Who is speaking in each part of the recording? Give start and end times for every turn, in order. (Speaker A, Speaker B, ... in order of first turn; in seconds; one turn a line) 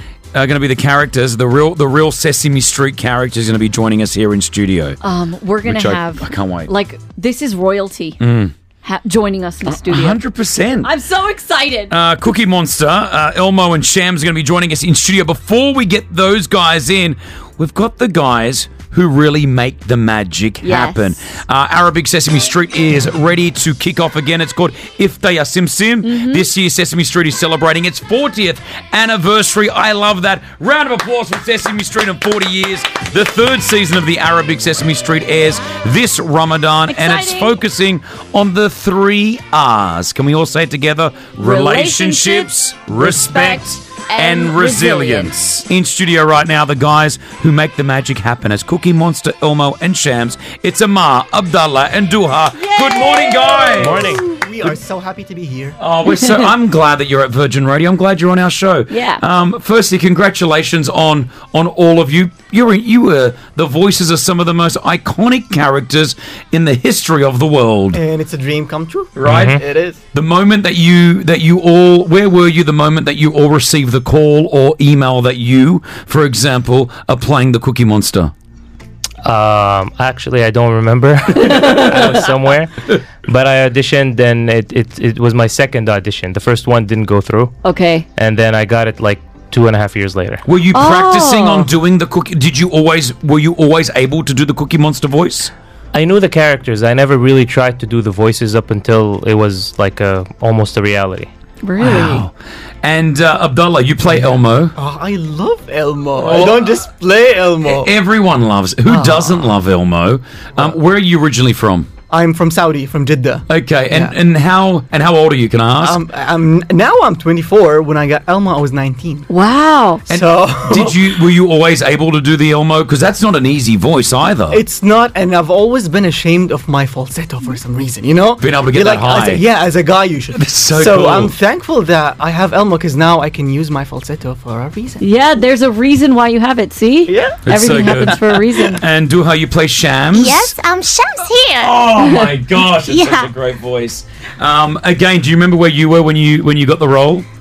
Speaker A: 0.3-5.0
Speaker B: 5.0-8.2
Speaker A: 5.6-6.7
Speaker A: 8.2-8.5
Speaker B: 8.8-10.2
Speaker A: 9.7-10.9
Speaker B: 10.8-11.9
Speaker A: 11.9-54.0
Speaker B: 20.6-21.2
Speaker B: 26.0-26.5
Speaker B: 36.9-37.6
Speaker B: 41.4-45.3
Speaker B: 52.5-54.2
Speaker C: 53.6-54.2
Speaker D: 53.8-55.8
Speaker A: 55.8-68.0
Speaker B: 58.9-59.2
Speaker D: 67.9-70.0
Speaker A: 69.2-69.6
Speaker C: 69.2-69.6
Speaker A: 70.1-78.3
Speaker C: 79.2-87.5
Speaker B: 87.6-88.0
Speaker C: 88.2-90.4
Speaker A: 90.4-95.5
Speaker B: 90.7-91.7
Speaker C: 95.9-101.3
Speaker B: 101.6-102.2
Speaker A: 101.8-102.3
Speaker A: 102.8-104.7
Speaker D: 104.1-107.9
Speaker A: 106.2-106.7
Speaker A: 107.6-111.9
Speaker D: 108.8-109.5
Speaker D: 112.1-114.1
Speaker A: 113.5-116.0
Speaker D: 115.8-119.3
Speaker B: 119.3-120.0
Speaker D: 120.1-121.1
Speaker A: 120.1-124.6
Speaker D: 124.5-135.0
Speaker A: 128.4-129.4
Speaker A: 130.3-131.3
Speaker B: 135.0-138.8
Speaker D: 137.1-137.4
Speaker A: 137.4-138.2
Speaker A: 138.7-140.6
Speaker E: 140.1-143.3
Speaker A: 141.6-147.2